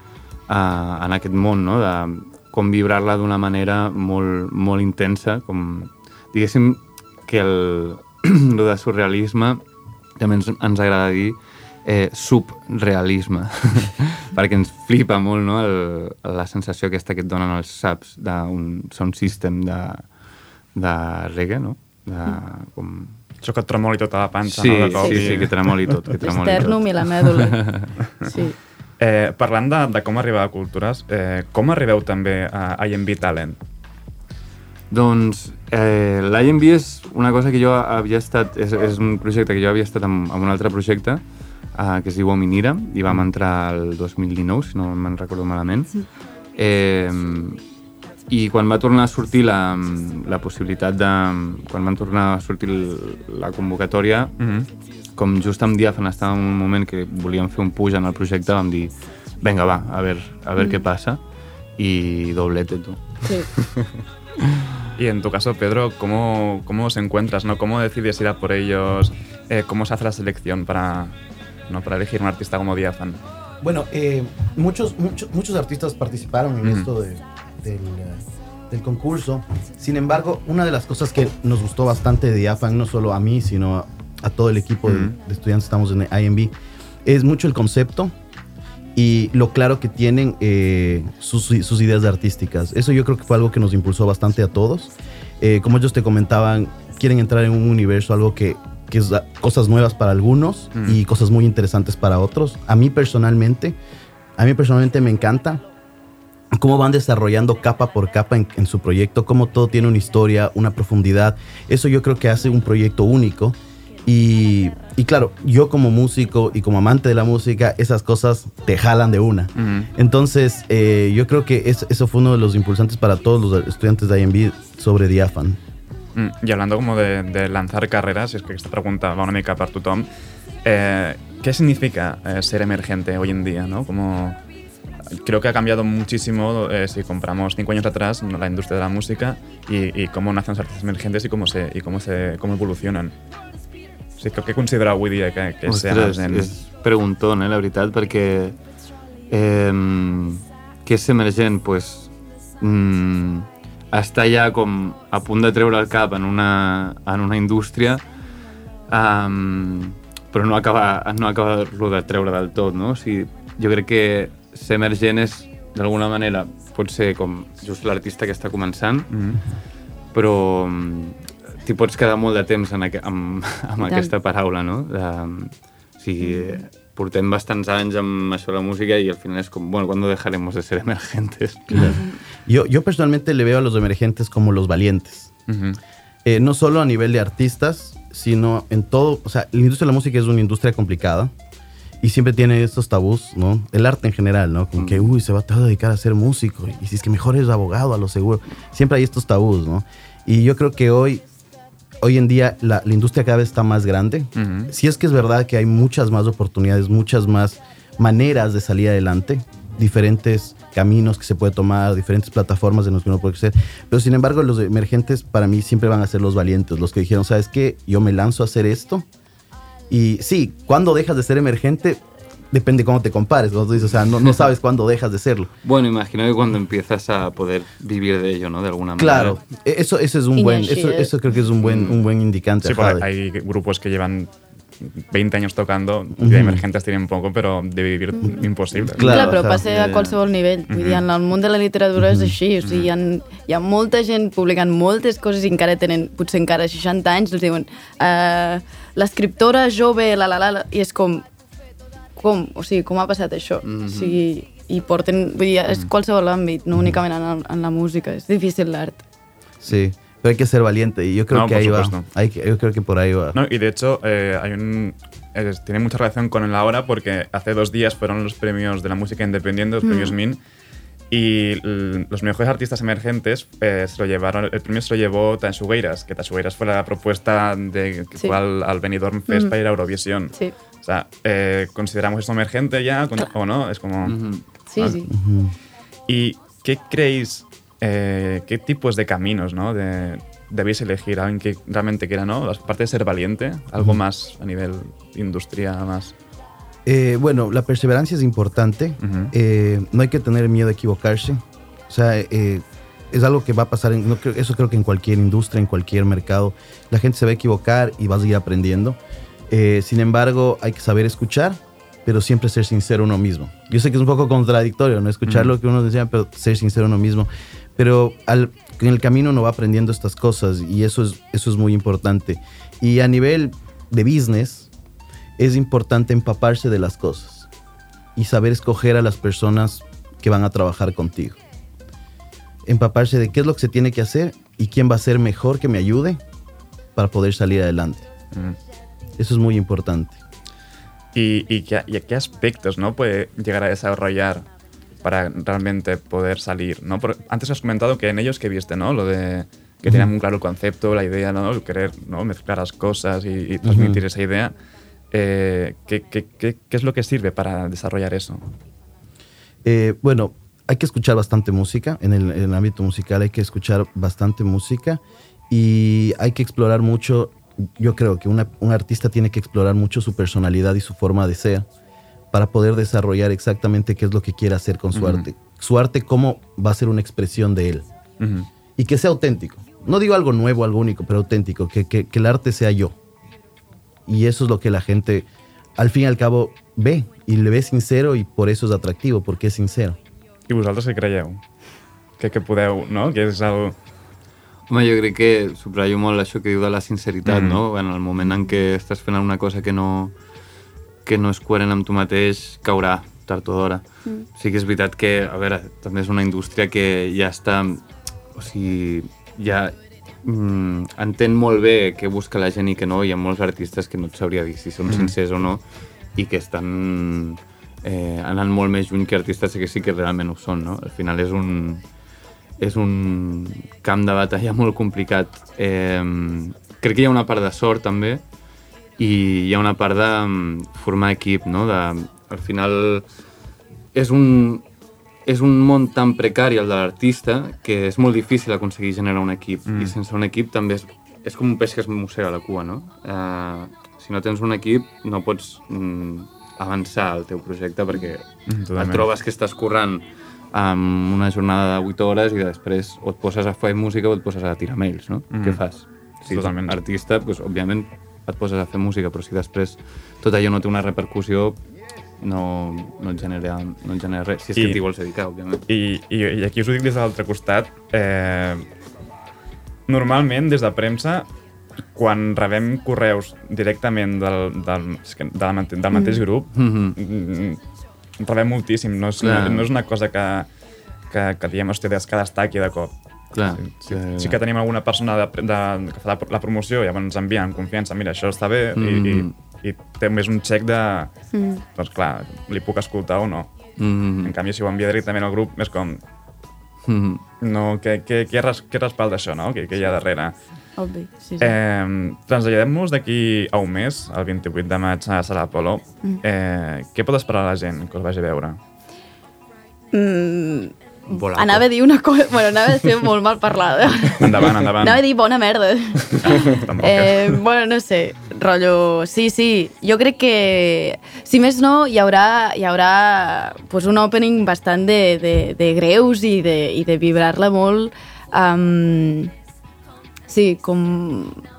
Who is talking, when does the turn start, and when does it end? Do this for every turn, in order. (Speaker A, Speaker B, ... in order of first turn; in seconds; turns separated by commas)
Speaker A: 0.5-9.6, Speaker A: 10.2-20.1, Speaker A: 20.8-23.2, Speaker B: 23.4-26.0, Speaker A: 24.4-27.9, Speaker C: 24.9-25.4, Speaker C: 26.2-27.6, Speaker C: 28.2-28.6, Speaker B: 29.0-33.6, Speaker A: 34.9-41.2, Speaker A: 41.7-45.9, Speaker A: 46.5-47.6, Speaker A: 48.3-54.4, Speaker B: 54.4-54.7, Speaker A: 55.2-61.2, Speaker A: 61.8-63.2, Speaker B: 65.0-71.2, Speaker B: 71.7-73.2, Speaker D: 73.6-86.5, Speaker B: 76.6-76.9, Speaker B: 84.9-85.2, Speaker D: 87.0-88.1, Speaker D: 89.0-103.8, Speaker B: 100.7-101.0, Speaker D: 104.4-105.6, Speaker D: 106.5-125.6, Speaker B: 119.6-119.9, Speaker B: 126.2-130.1, Speaker B: 130.6-134.4, Speaker B: 135.2-143.2, Speaker B: 144.2-146.6, Speaker A: 145.7-148.6, Speaker A: 149.3-158.0, Speaker A: 158.9-169.1, Speaker B: 169.1-169.4, Speaker A: 170.1-182.0, Speaker C: 173.8-174.1, Speaker C: 181.9-182.1, Speaker D: 182.5-185.3, Speaker B: 185.5-185.8, Speaker D: 186.2-191.3, Speaker D: 192.0-201.2, Speaker A: 194.8-195.2, Speaker D: 202.0-219.1, Speaker B: 204.3-204.7, Speaker D: 219.9-222.0, Speaker D: 222.5-225.5, Speaker A: 224.2-224.5, Speaker A: 225.6-229.4, Speaker D: 229.0-233.1, Speaker C: 230.3-231.1, Speaker A: 231.6-232.0, Speaker B: 232.6-239.2, Speaker D: 236.2-236.6, Speaker C: 238.2-238.4, Speaker A: 238.8-240.2, Speaker D: 239.0-239.6, Speaker C: 239.0-251.3, Speaker B: 240.7-241.0, Speaker D: 242.0-242.3, Speaker B: 242.6-242.9, Speaker C: 252.2-259.0, Speaker A: 253.6-254.2, Speaker D: 259.6-263.4, Speaker B: 261.3-262.1, Speaker B: 263.3-270.4, Speaker C: 269.8-270.2, Speaker B: 271.1-284.2, Speaker C: 279.3-279.6, Speaker A: 284.0-284.4, Speaker C: 284.7-285.1, Speaker B: 284.8-285.0, Speaker D: 285.1-285.5, Speaker B: 286.1-296.1, Speaker D: 296.9-309.0, Speaker B: 299.0-299.3, Speaker D: 309.5-324.7, Speaker B: 315.2-315.6, Speaker D: 325.4-327.5, Speaker D: 328.2-331.4, Speaker D: 332.7-336.2, Speaker D: 337.0-338.1, Speaker B: 338.3-338.6, Speaker D: 339.2-340.2, Speaker B: 341.1-344.5, Speaker B: 345.0-354.5, Speaker D: 353.6-354.0, Speaker B: 355.1-358.5, Speaker D: 359.6-371.7, Speaker D: 372.3-377.9, Speaker B: 374.9-375.3, Speaker B: 378.2-378.5, Speaker D: 378.7-382.9, Speaker D: 384.1-390.0, Speaker B: 390.5-391.4, Speaker B: 392.2-393.8, Speaker A: 394.7-400.1, Speaker B: 397.3-397.6, Speaker A: 401.1-403.8, Speaker A: 404.4-407.8, Speaker A: 408.4-415.6, Speaker B: 414.9-415.1, Speaker A: 416.1-421.8, Speaker A: 422.6-428.2, Speaker A: 429.0-433.1, Speaker A: 433.9-434.6, Speaker A: 435.3-461.6, Speaker B: 439.7-440.0, Speaker B: 448.5-449.1, Speaker B: 455.3-455.6, Speaker B: 456.3-456.8, Speaker A: 462.2-465.6, Speaker B: 465.7-468.6, Speaker B: 469.9-471.3, Speaker B: 471.9-477.6, Speaker C: 475.9-476.2, Speaker A: 476.6-476.9, Speaker B: 478.2-480.5, Speaker A: 479.2-479.7, Speaker B: 481.1-483.0, Speaker A: 483.3-484.4, Speaker B: 483.6-491.1, Speaker A: 488.8-489.3, Speaker C: 491.3-491.6, Speaker B: 491.7-493.7, Speaker A: 493.8-494.3, Speaker B: 494.2-496.0, Speaker A: 496.9-497.2, Speaker B: 497.4-500.4, Speaker C: 500.8-501.6, Speaker B: 501.4-508.6, Speaker C: 509.9-529.3, Speaker A: 511.1-511.6, Speaker B: 514.2-515.0, Speaker B: 516.2-517.4, Speaker C: 530.3-531.4